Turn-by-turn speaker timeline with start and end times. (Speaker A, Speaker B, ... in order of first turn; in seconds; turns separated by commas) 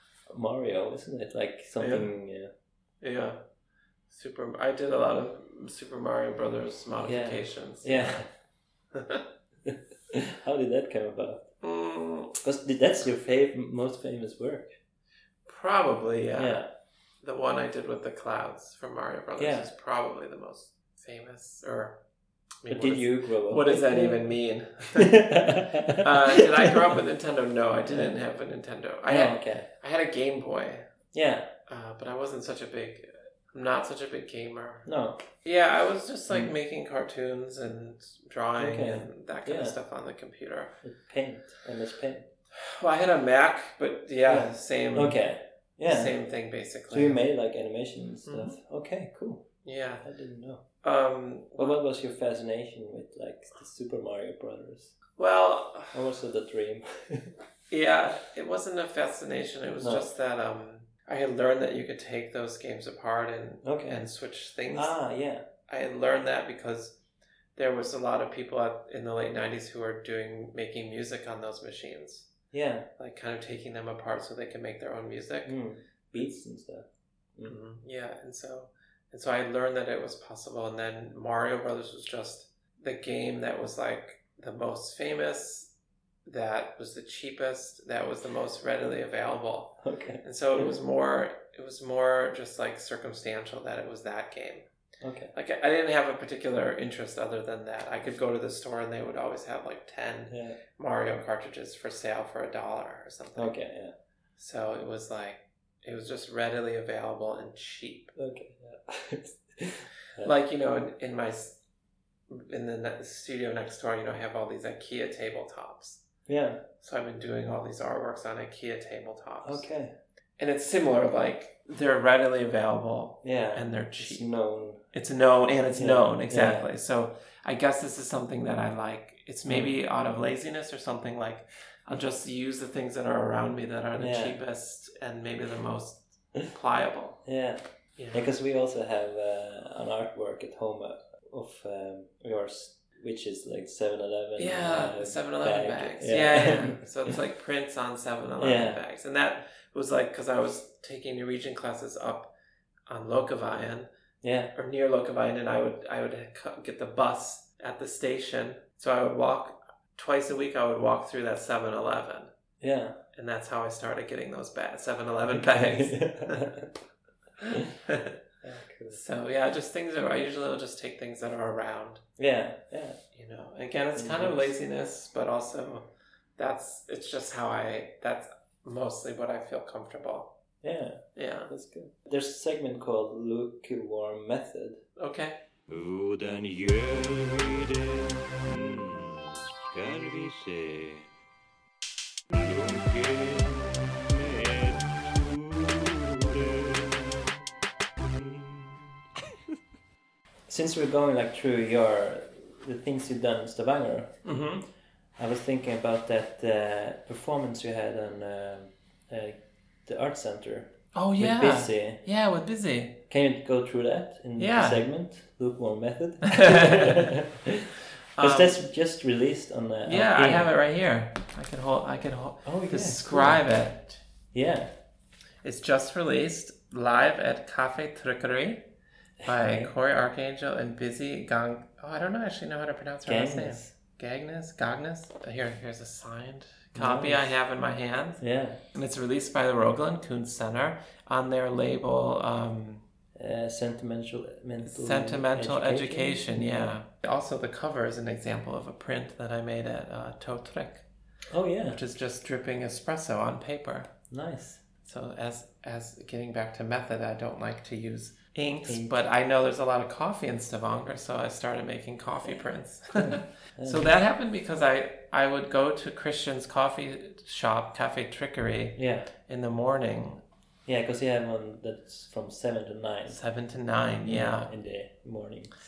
Speaker A: 0.3-2.5, Speaker B: 1.8-2.1, Speaker B: 3.0-3.4, Speaker B: 4.1-8.2, Speaker A: 7.0-8.3, Speaker B: 8.9-9.2, Speaker A: 9.6-11.5, Speaker B: 11.6-12.4, Speaker A: 12.4-14.8, Speaker B: 15.5-16.6, Speaker A: 16.4-16.7, Speaker B: 17.2-22.0, Speaker A: 19.4-19.7, Speaker B: 22.6-30.9, Speaker A: 22.7-24.3, Speaker A: 24.9-26.8, Speaker A: 27.9-28.1, Speaker A: 29.1-29.7, Speaker A: 31.1-31.5, Speaker B: 31.7-34.9, Speaker A: 34.8-35.2, Speaker B: 35.4-40.8, Speaker A: 38.6-39.8, Speaker A: 40.8-42.3, Speaker B: 42.5-45.2, Speaker A: 44.3-46.1, Speaker B: 45.9-47.2, Speaker A: 46.9-49.5, Speaker B: 48.2-48.5, Speaker B: 49.6-50.0, Speaker A: 50.0-50.6, Speaker B: 50.8-51.7, Speaker A: 51.5-55.0, Speaker B: 55.2-56.0, Speaker A: 55.9-57.3, Speaker B: 57.7-65.0, Speaker A: 59.8-60.1, Speaker A: 63.6-64.0, Speaker A: 64.7-65.4, Speaker B: 65.7-67.0, Speaker B: 67.5-72.3, Speaker A: 72.5-72.9, Speaker B: 73.0-75.5, Speaker A: 75.4-77.6, Speaker B: 77.4-85.7, Speaker B: 86.2-94.7, Speaker A: 89.8-90.7, Speaker A: 95.0-95.3, Speaker B: 95.3-103.5, Speaker A: 100.3-100.6, Speaker A: 103.3-103.9, Speaker B: 104.4-108.1, Speaker A: 108.2-110.3, Speaker B: 110.2-111.6, Speaker B: 112.3-116.0, Speaker A: 116.3-116.6, Speaker B: 116.8-119.7, Speaker A: 119.4-119.9, Speaker B: 120.4-124.3, Speaker A: 123.2-124.8, Speaker B: 124.9-137.2, Speaker A: 125.7-126.7, Speaker A: 129.5-129.7, Speaker A: 134.0-134.4, Speaker A: 137.2-147.1, Speaker B: 138.0-138.3, Speaker B: 144.4-152.3, Speaker A: 148.4-148.8, Speaker B: 152.9-153.9, Speaker A: 154.2-154.5, Speaker B: 154.5-162.3, Speaker A: 162.6-163.0, Speaker B: 163.1-166.5, Speaker A: 165.3-166.7, Speaker B: 167.4-168.2, Speaker A: 168.4-169.0, Speaker B: 168.9-172.0, Speaker A: 172.2-173.0, Speaker B: 173.1-180.3, Speaker A: 173.9-174.5, Speaker A: 180.6-184.8, Speaker B: 181.2-181.5, Speaker B: 185.0-185.4, Speaker C: 185.7-191.1, Speaker C: 192.3-197.3, Speaker C: 198.0-198.9, Speaker A: 200.5-204.2, Speaker B: 204.2-204.6, Speaker A: 205.2-212.0, Speaker B: 210.9-213.0, Speaker A: 213.1-220.5, Speaker B: 214.4-214.8, Speaker B: 216.3-217.1, Speaker B: 218.2-218.6, Speaker B: 219.8-224.0, Speaker A: 222.4-223.4, Speaker A: 224.3-224.7, Speaker B: 225.4-228.7, Speaker A: 229.2-229.7, Speaker B: 229.2-238.2, Speaker A: 233.0-233.7, Speaker A: 236.8-237.3, Speaker A: 238.2-238.6, Speaker B: 238.7-242.8, Speaker A: 243.2-246.8, Speaker B: 244.7-250.8, Speaker A: 251.3-251.8, Speaker B: 251.6-253.9, Speaker A: 254.1-254.6, Speaker B: 254.8-270.2, Speaker A: 258.6-259.0, Speaker A: 262.2-263.9, Speaker A: 268.8-269.1, Speaker A: 270.6-273.2, Speaker B: 273.1-274.5, Speaker A: 274.0-275.5